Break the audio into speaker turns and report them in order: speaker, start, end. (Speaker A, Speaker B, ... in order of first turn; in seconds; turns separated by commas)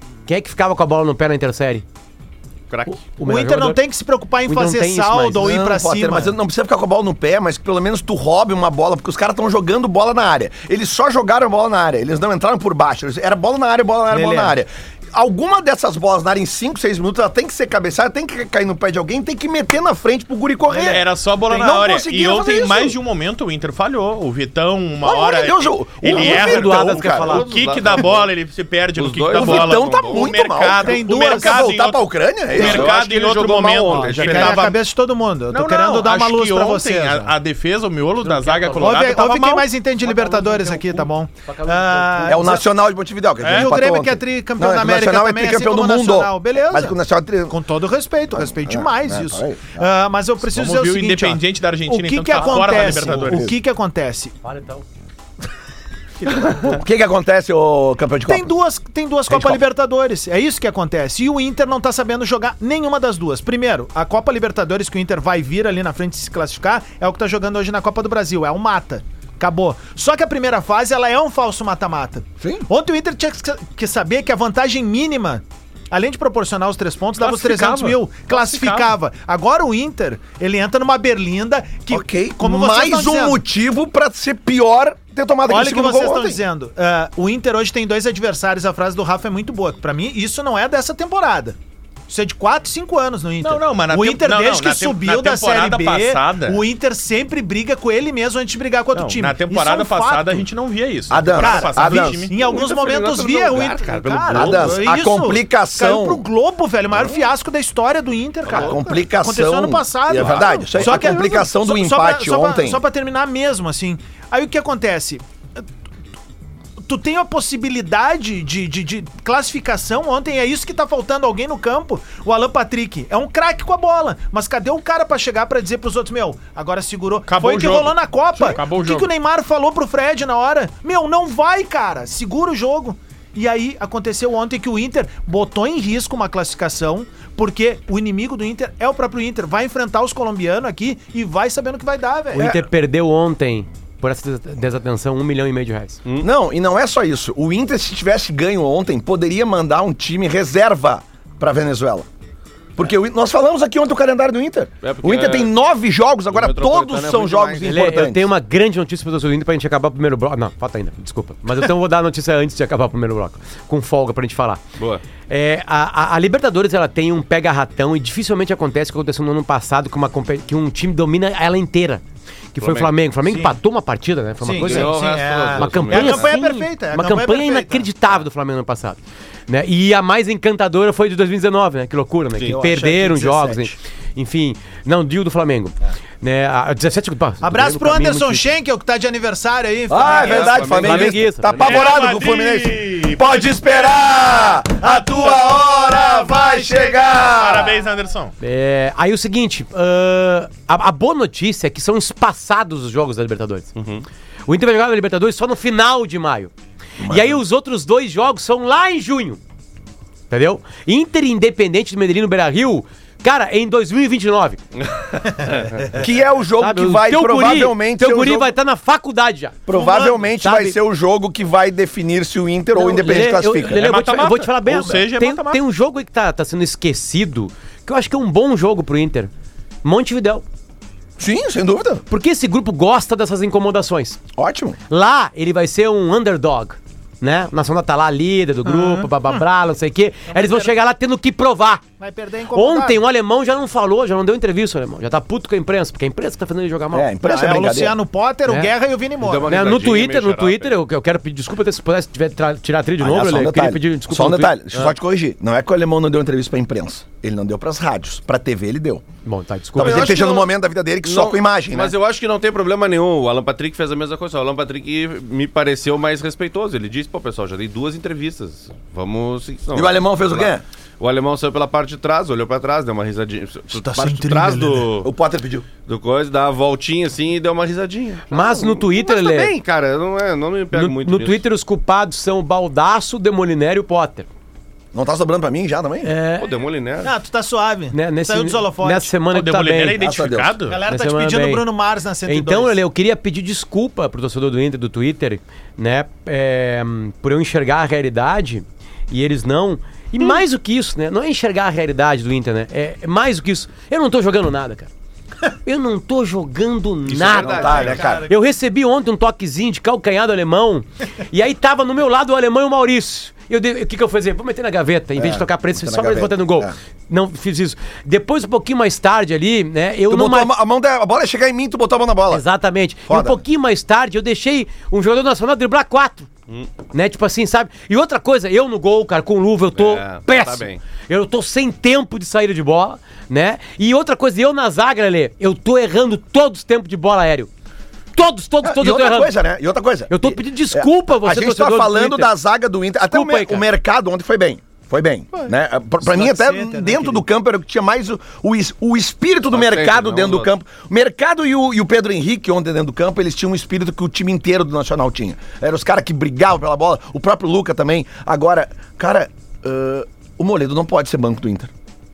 Speaker A: 0.3-1.8, Speaker A: 2.9-3.8, Speaker B: 3.2-6.3, Speaker A: 4.5-5.5, Speaker C: 5.4-22.9, Speaker B: 14.1-14.6, Speaker B: 20.7-21.0, Speaker D: 20.8-34.8, Speaker C: 25.0-27.3, Speaker A: 26.1-27.5, Speaker E: 27.1-28.3, Speaker E: 29.0-30.3, Speaker C: 29.3-32.9, Speaker B: 30.6-31.6, Speaker E: 32.5-34.7, Speaker B: 33.9-37.3, Speaker D: 35.5-39.7, Speaker A: 38.2-39.1, Speaker B: 38.8-42.6, Speaker A: 40.0-42.5, Speaker C: 42.2-47.5, Speaker D: 43.4-43.8, Speaker B: 43.5-46.9, Speaker B: 47.5-54.3, Speaker C: 48.3-49.9, Speaker D: 50.4-53.5, Speaker C: 52.5-53.5, Speaker A: 54.4-54.8, Speaker C: 56.3-58.5, Speaker B: 58.3-83.4, Speaker C: 59.3-59.6, Speaker C: 72.4-72.7, Speaker D: 77.2-78.9, Speaker C: 81.9-86.4, Speaker B: 85.5-91.5, Speaker B: 92.1-100.4, Speaker D: 93.4-96.6, Speaker D: 98.9-102.3, Speaker C: 101.1-102.3, Speaker B: 101.3-115.6, Speaker E: 102.3-104.9, Speaker C: 104.3-106.2, Speaker E: 108.4-108.8, Speaker C: 108.5-112.8, Speaker E: 110.1-111.2, Speaker B: 116.8-142.5, Speaker D: 127.3-129.1, Speaker A: 142.3-146.0, Speaker C: 142.3-142.6, Speaker C: 146.2-152.1, Speaker C: 152.8-158.3, Speaker E: 154.8-155.5, Speaker E: 156.3-157.7, Speaker A: 157.6-164.6, Speaker E: 164.8-165.0, Speaker A: 165.3-172.0, Speaker A: 172.5-188.5, Speaker E: 172.6-172.9, Speaker B: 173.3-173.6, Speaker B: 174.4-177.9, Speaker E: 174.6-176.3, Speaker B: 182.6-183.6, Speaker B: 187.4-190.7, Speaker C: 189.9-197.8, Speaker E: 190.0-191.6, Speaker A: 190.7-191.5, Speaker D: 191.6-193.4, Speaker B: 194.8-197.0, Speaker D: 197.3-198.3, Speaker A: 198.4-203.7, Speaker E: 203.8-204.0, Speaker A: 204.5-206.5, Speaker C: 207.0-207.4, Speaker A: 207.1-209.4, Speaker A: 210.3-214.6, Speaker E: 214.8-215.9, Speaker C: 215.9-218.5, Speaker A: 216.6-219.7, Speaker C: 219.7-223.9, Speaker B: 219.7-220.1, Speaker A: 220.4-220.8, Speaker A: 222.7-229.3, Speaker D: 223.8-225.6, Speaker A: 229.8-230.4, Speaker C: 231.2-232.0, Speaker A: 232.1-234.2, Speaker C: 234.3-234.8, Speaker A: 234.9-241.8, Speaker B: 238.6-239.4, Speaker B: 240.3-240.7, Speaker B: 242.0-243.0, Speaker A: 242.5-247.1, Speaker C: 246.9-248.0, Speaker B: 247.2-249.5, Speaker A: 248.5-248.7, Speaker E: 249.2-250.8, Speaker A: 249.4-254.9, Speaker C: 253.0-259.0, Speaker A: 259.2-260.2, Speaker E: 259.8-260.5, Speaker C: 259.8-261.9, Speaker E: 261.0-270.5, Speaker C: 269.7-270.6, Speaker E: 271.0-275.1, Speaker B: 273.7-274.9, Speaker C: 275.0-275.7, Speaker E: 275.8-281.4, Speaker A: 278.3-279.5, Speaker A: 280.7-284.3, Speaker C: 284.9-286.1, Speaker A: 286.0-286.5, Speaker E: 286.4-287.1, Speaker B: 287.0-289.1, Speaker A: 287.9-290.0, Speaker D: 289.3-290.8, Speaker C: 290.0-290.6, Speaker B: 290.7-292.8, Speaker A: 290.9-291.6, Speaker A: 292.2-304.9, Speaker A: 305.6-320.5, Speaker E: 307.1-308.0, Speaker C: 307.3-308.3, Speaker B: 307.8-308.2, Speaker C: 315.2-316.7, Speaker C: 320.1-322.4, Speaker A: 322.3-326.3, Speaker C: 323.1-323.4, Speaker A: 326.9-337.5, Speaker E: 329.7-330.8, Speaker A: 338.1-339.4, Speaker C: 338.6-361.7, Speaker A: 340.1-342.3, Speaker A: 343.1-343.6, Speaker B: 345.4-347.2, Speaker E: 349.5-350.5